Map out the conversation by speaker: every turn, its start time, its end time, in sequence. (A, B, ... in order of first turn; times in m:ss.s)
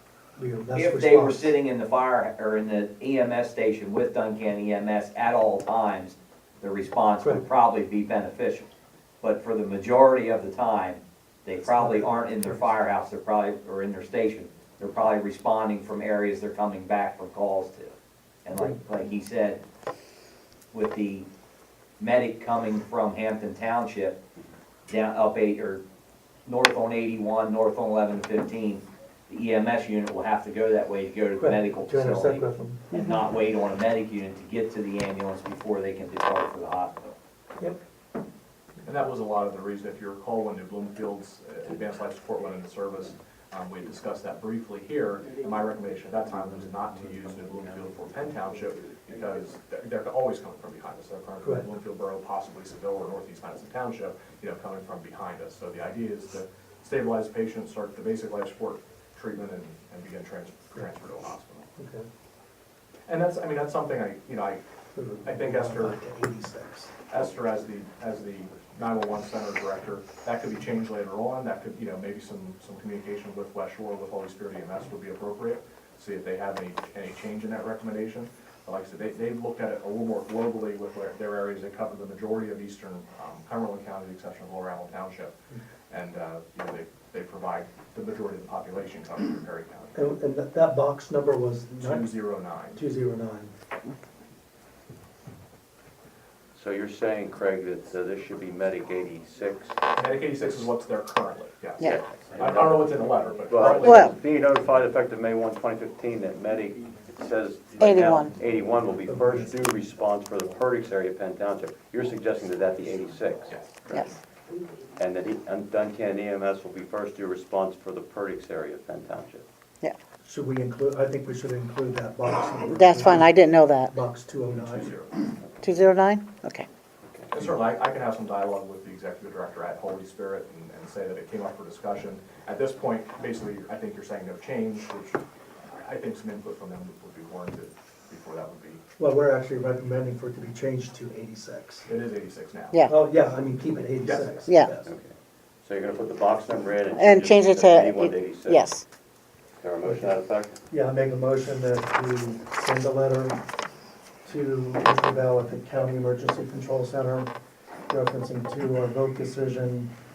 0:00.4-0:01.5 A
0:00.7-0:08.7 B
0:09.2-0:19.6 B
0:11.6-0:12.6 A
0:18.5-0:18.8 A
0:20.7-0:21.3 B
0:22.0-0:24.2 B
0:24.8-0:25.8 B
0:26.4-0:37.2 B
0:31.4-0:32.9 A
0:32.9-0:33.2 C
0:38.8-1:01.7 D
0:51.4-0:51.7 A
1:01.8-1:02.1 A
1:03.1-1:04.6 D
1:04.9-1:06.9 A
1:05.2-1:06.0 D
1:07.1-1:25.3 D
1:25.9-1:30.1 D
1:29.9-1:33.5 A
1:31.8-1:32.8 D
1:36.5-1:39.8 E
1:39.9-1:44.1 D
1:41.8-1:42.9 E
1:43.5-1:54.1 E
1:43.8-1:44.2 C
1:47.8-1:48.4 C
1:49.1-1:49.6 A
1:55.0-1:59.4 E
2:00.2-2:03.4 A
2:02.7-2:03.9 C
2:03.9-2:05.0 A
2:04.5-2:05.2 D
2:05.6-2:06.7 C
2:07.3-2:18.8 D
2:19.0-2:21.9 A
2:21.8-2:22.8 D
2:22.9-2:24.9 A
2:24.0-2:24.4 D
2:24.4-2:24.8 C
2:24.8-2:28.6 E
2:26.9-2:28.8 C
2:29.6-2:30.6 E
2:29.8-2:30.2 A
2:30.7-2:33.4 A
2:34.2-2:37.3 A
2:37.9-2:39.9 A